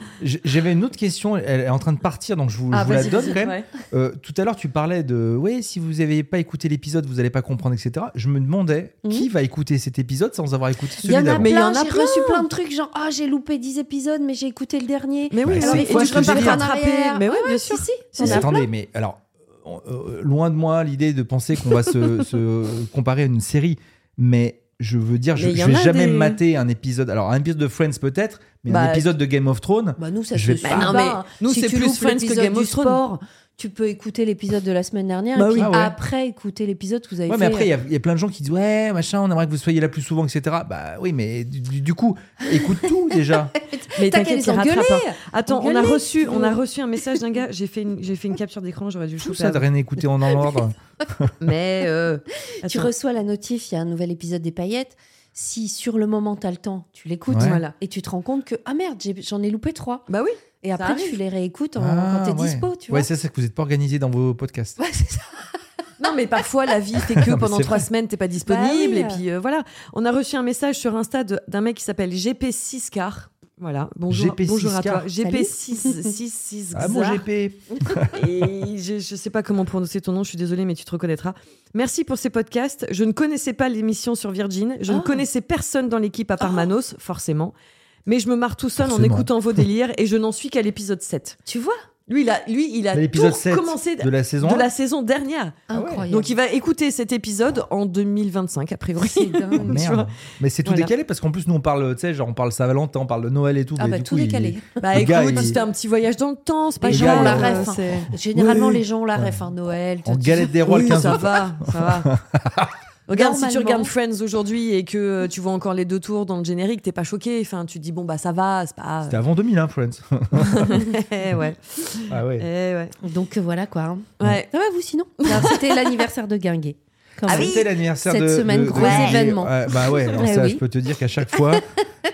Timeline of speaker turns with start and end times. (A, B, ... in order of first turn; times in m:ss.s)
0:00.2-0:11.5 A
0:02.7-0:03.6 B
0:11.0-0:18.5 C
0:11.4-0:12.5 B
0:15.3-0:18.5 B
0:15.4-0:16.7 A
0:18.2-0:31.0 A
0:25.4-0:26.4 B
0:28.7-0:29.1 B
0:30.0-0:37.7 C
0:30.6-0:33.0 B
0:35.4-0:35.7 B
0:35.6-0:35.9 A
0:37.3-0:43.5 A
0:42.5-0:42.9 C
0:43.6-0:46.6 C
0:44.0-0:49.6 B
0:49.2-0:51.3 A
0:51.4-0:52.9 B
0:52.6-1:00.0 C
0:57.3-0:57.6 A
0:57.4-0:57.7 B
1:00.1-1:01.2 B
1:00.6-1:03.1 C
1:01.8-1:04.8 A
1:04.8-1:05.3 C
1:06.0-1:17.2 B
1:07.2-1:07.9 A
1:08.4-1:09.2 C
1:14.1-1:15.1 A
1:15.2-1:16.1 C
1:16.7-1:18.3 A
1:18.1-1:27.5 B
1:24.9-1:25.2 C
1:28.0-1:31.4 B
1:28.8-1:29.6 A
1:31.4-1:31.8 C
1:32.1-1:40.1 B
1:32.9-1:34.7 A
1:35.7-1:36.3 C
1:35.7-1:36.1 A
1:39.0-1:39.7 C
1:39.6-1:45.6 A
1:40.6-1:40.9 B
1:43.8-1:44.8 C
1:44.8-1:48.8 B
1:46.8-1:51.2 C
1:46.9-1:47.7 A
1:48.4-1:48.6 A
1:49.2-1:49.4 A
1:50.0-1:52.7 A
1:50.6-1:52.1 B
1:53.1-1:59.2 B
1:53.1-1:53.9 C
1:59.0-2:01.4 A
2:00.4-2:02.9 B
2:02.1-2:02.5 A
2:03.0-2:09.5 C
2:04.2-2:04.5 B
2:05.2-2:06.0 B
2:07.2-2:11.6 A
2:07.3-2:07.6 B
2:08.7-2:09.2 B
2:10.1-2:10.6 C